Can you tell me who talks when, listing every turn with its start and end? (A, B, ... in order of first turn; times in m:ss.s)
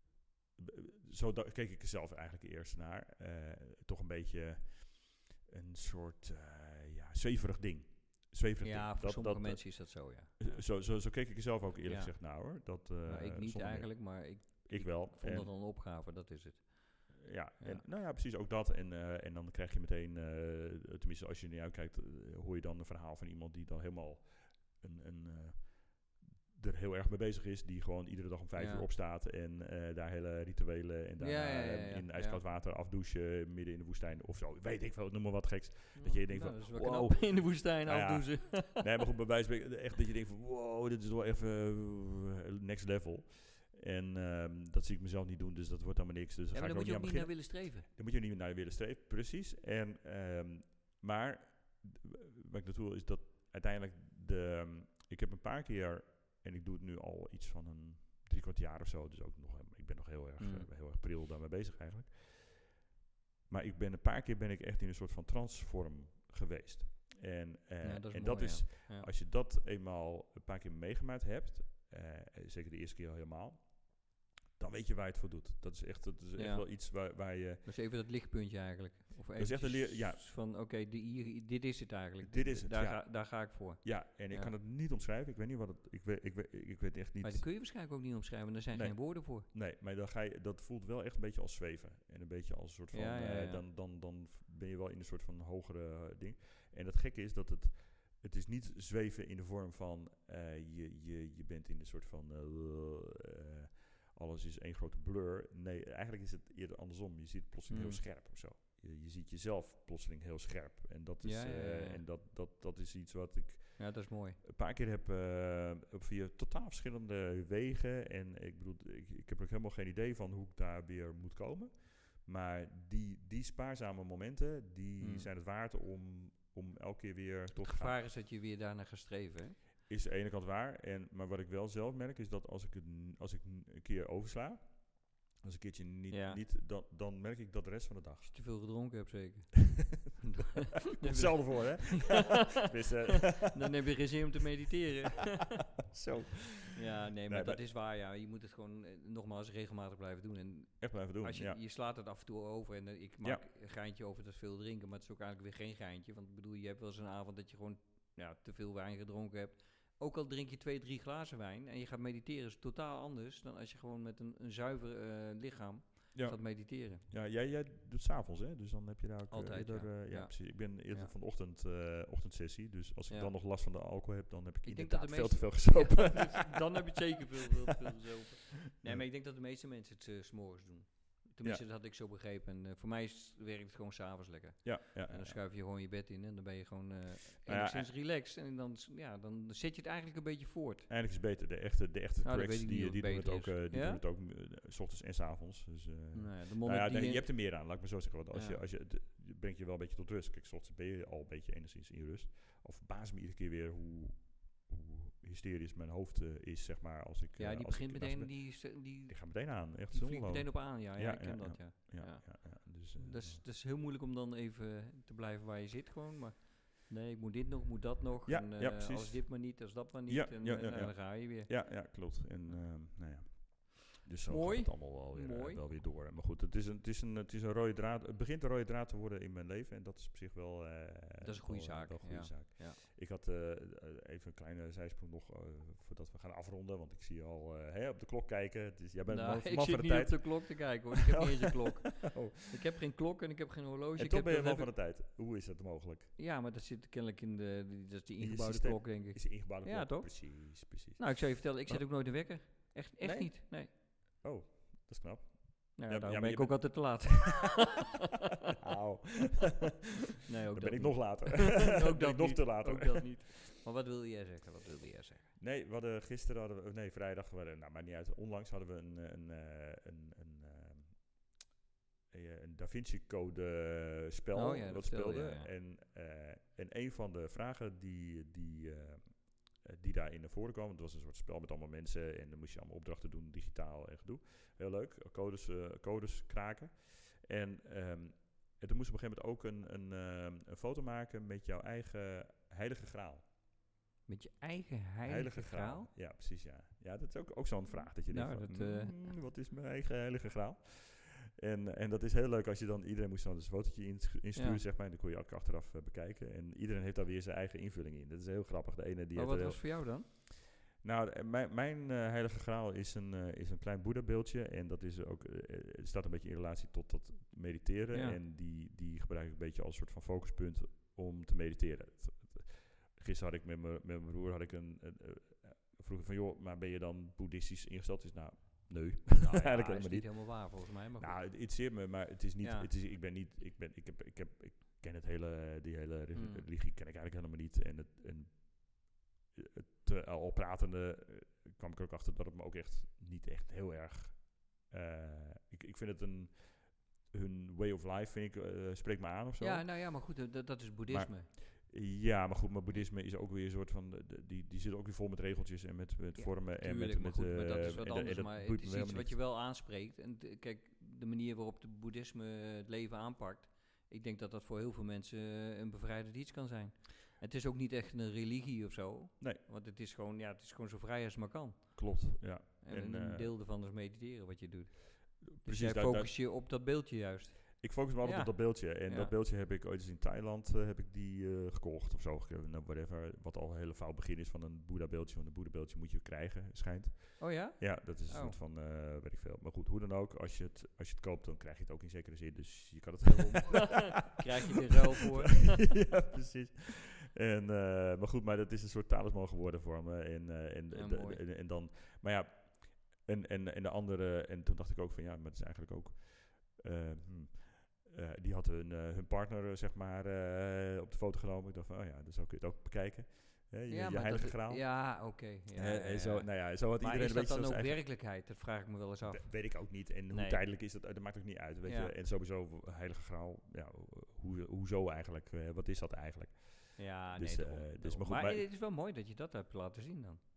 0:00.6-0:15.5 A
0:08.6-0:10.6 B
0:11.8-0:17.8 B
0:17.1-1:02.8 A
0:28.6-0:28.9 B
0:31.2-0:32.4 B
0:36.0-0:38.9 B
0:46.5-0:47.9 B
1:00.4-1:00.7 B
1:03.5-1:17.7 A
1:07.8-1:09.1 B
1:16.4-1:16.8 B
1:17.6-1:24.5 B
1:19.4-1:20.2 A
1:22.2-1:27.5 A
1:27.2-1:29.5 B
1:28.7-2:08.0 A
1:32.9-1:33.6 B
1:47.7-1:48.0 B
1:51.2-1:52.0 B
1:53.8-1:54.4 B
2:05.0-2:05.3 B
2:07.6-2:09.6 B
2:09.9-2:18.3 A
2:16.1-2:16.4 B
2:18.3-2:22.4 B
2:20.9-2:23.7 A
2:23.1-2:25.8 B
2:25.9-2:27.6 A
2:26.7-2:47.0 B
2:30.8-2:31.6 A
2:46.1-2:57.5 A
2:49.3-2:51.1 B
2:54.6-3:10.9 B
3:04.6-3:05.4 A
3:07.5-3:07.9 A
3:10.9-3:33.4 A
3:12.2-3:14.0 B
3:16.1-3:17.4 B
3:18.3-3:18.6 B
3:27.4-3:42.0 B
3:38.2-4:02.6 A
3:44.3-3:45.6 B
3:51.2-3:52.8 B
3:59.1-4:04.7 B
4:04.0-4:06.1 A
4:06.2-4:13.7 B
4:08.2-4:11.9 A
4:13.0-4:17.2 A
4:15.8-4:18.0 B
4:18.6-4:19.6 A
4:20.2-4:25.3 B
4:20.5-4:23.4 A
4:25.4-4:31.1 A
4:32.1-4:53.2 A
4:34.3-4:35.5 B
4:54.1-4:55.9 B
4:55.0-5:10.2 A
4:58.1-4:59.1 B
5:04.3-5:04.6 B
5:09.1-5:10.1 B
5:10.8-5:49.8 A
5:17.9-5:18.2 B
5:29.2-5:31.4 B
5:32.4-5:32.7 B
5:36.1-5:36.4 B
5:49.4-5:51.3 B
5:50.9-5:59.2 A
5:56.1-6:19.1 B
6:11.8-6:13.3 A
6:15.2-6:16.2 A
6:17.6-6:34.2 A
6:27.2-6:28.4 B
6:33.8-6:35.7 B
6:35.0-6:57.8 A
6:40.7-6:41.2 B
6:53.7-7:00.4 B
6:59.0-7:08.4 A
7:01.6-7:01.9 B
7:06.8-7:10.2 B